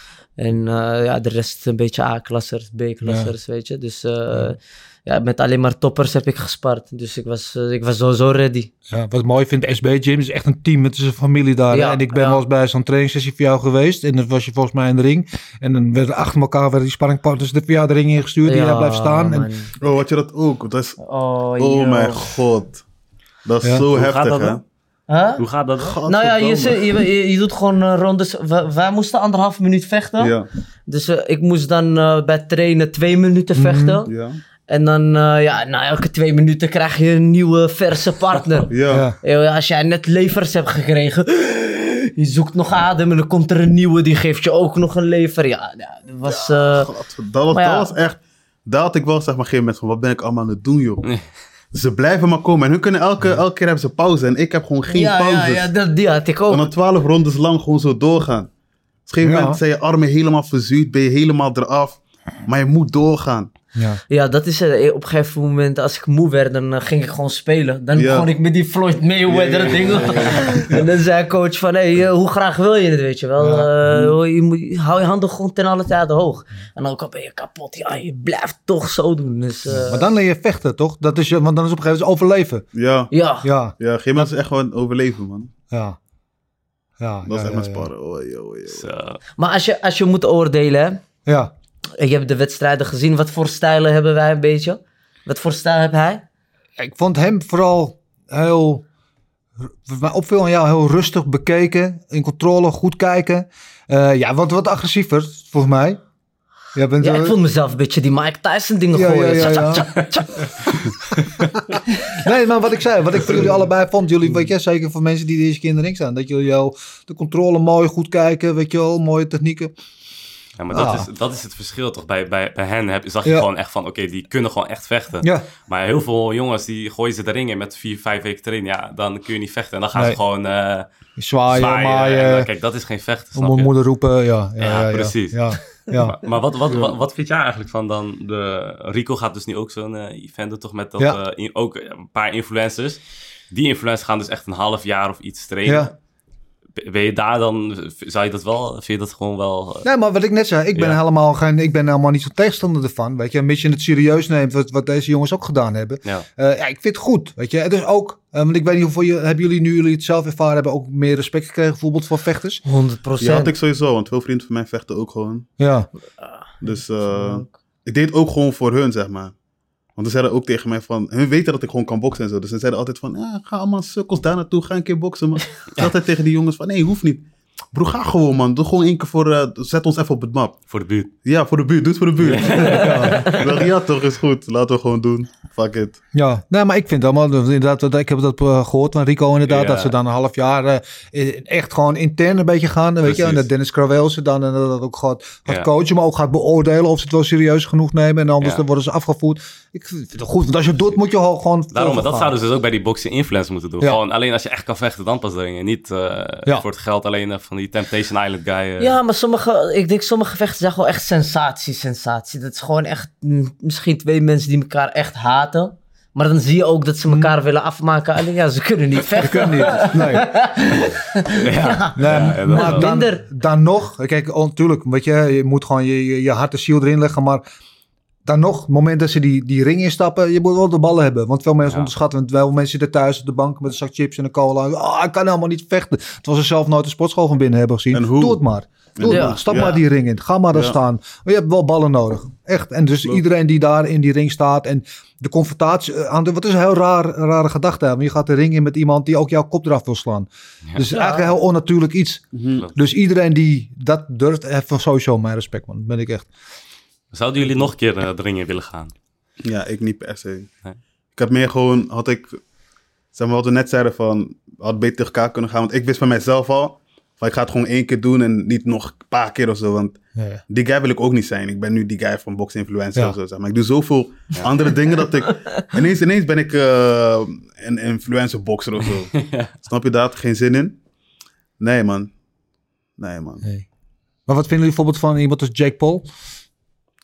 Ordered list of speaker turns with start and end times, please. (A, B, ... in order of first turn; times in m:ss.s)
0:00.4-0:08.7 A
0:03.0-0:03.3 B
0:08.9-0:19.5 B
0:11.7-0:12.4 A
0:18.4-0:19.7 A
0:19.8-0:21.0 C
0:21.0-0:22.3 A
0:21.6-0:22.8 C
0:23.4-0:24.6 C
0:23.9-0:24.6 D
0:25.1-0:25.4 A
0:25.4-0:26.0 D
0:25.8-0:27.0 C
0:26.1-0:30.3 A
0:30.2-0:30.5 C
0:30.9-0:34.1 A
0:33.6-0:34.0 B
0:34.1-0:34.4 C
0:34.7-0:46.9 A
0:38.7-0:39.1 C
0:38.9-0:39.2 B
0:46.3-0:51.1 C
0:47.5-0:47.9 A
0:51.7-0:55.7 C
0:54.9-0:56.7 A
0:56.5-0:58.5 C
0:59.1-1:03.5 C
0:59.2-0:59.6 B
1:04.1-1:20.1 A
1:08.0-1:08.3 C
1:09.3-1:10.8 C
1:13.4-1:13.7 B
1:13.9-1:14.1 C
1:19.7-1:22.6 B
1:22.8-1:23.1 C
1:23.1-1:23.5 A
1:23.4-1:24.3 B
1:23.8-1:25.5 C
1:25.7-1:26.0 B
1:27.0-1:27.9 B
1:27.3-1:28.9 C
1:28.7-1:29.2 D
1:29.4-1:31.0 A
1:31.3-1:31.5 B
1:32.0-1:36.2 A
1:36.8-1:38.8 B
1:39.6-1:46.0 B
1:46.8-1:47.4 B
1:47.0-1:50.5 A
1:48.9-1:49.9 B
1:52.1-1:59.7 B
2:00.6-2:10.9 D
2:00.7-2:01.1 B
2:05.2-2:05.5 B
2:11.2-2:12.5 B
2:11.5-2:13.7 D
2:13.4-2:16.2 B
2:14.6-2:25.9 D
2:25.7-2:25.9 B
2:26.8-2:29.9 D
2:29.8-2:42.6 B
2:30.8-2:31.0 D
2:42.6-2:43.5 A
2:43.2-2:45.5 C
2:45.6-2:45.9 B
2:46.2-2:47.5 A
2:46.6-2:49.3 C
2:50.0-3:00.6 C
3:00.7-3:01.1 D
3:01.2-3:06.0 C
3:02.2-3:03.5 D
3:02.6-3:03.4 A
3:02.7-3:03.3 B
3:06.1-3:22.3 B
3:09.5-3:09.9 D
3:13.0-3:13.4 D
3:18.4-3:18.6 D
3:21.7-3:29.0 D
3:28.8-3:43.2 A
3:39.1-3:40.3 B
3:41.4-3:42.9 D
3:42.0-3:47.4 B
3:48.2-4:16.3 B
3:57.9-3:58.4 C
3:59.0-3:59.8 C
3:59.0-3:59.7 A
4:10.9-4:11.3 A
4:12.3-4:12.7 C
4:17.1-4:18.9 D
4:19.4-4:20.5 C
4:21.2-4:22.4 C
4:23.1-4:40.8 C
4:30.2-4:30.4 B
4:39.1-4:39.5 D
4:41.6-4:42.1 C
4:43.0-4:43.4 C
4:44.3-4:46.0 B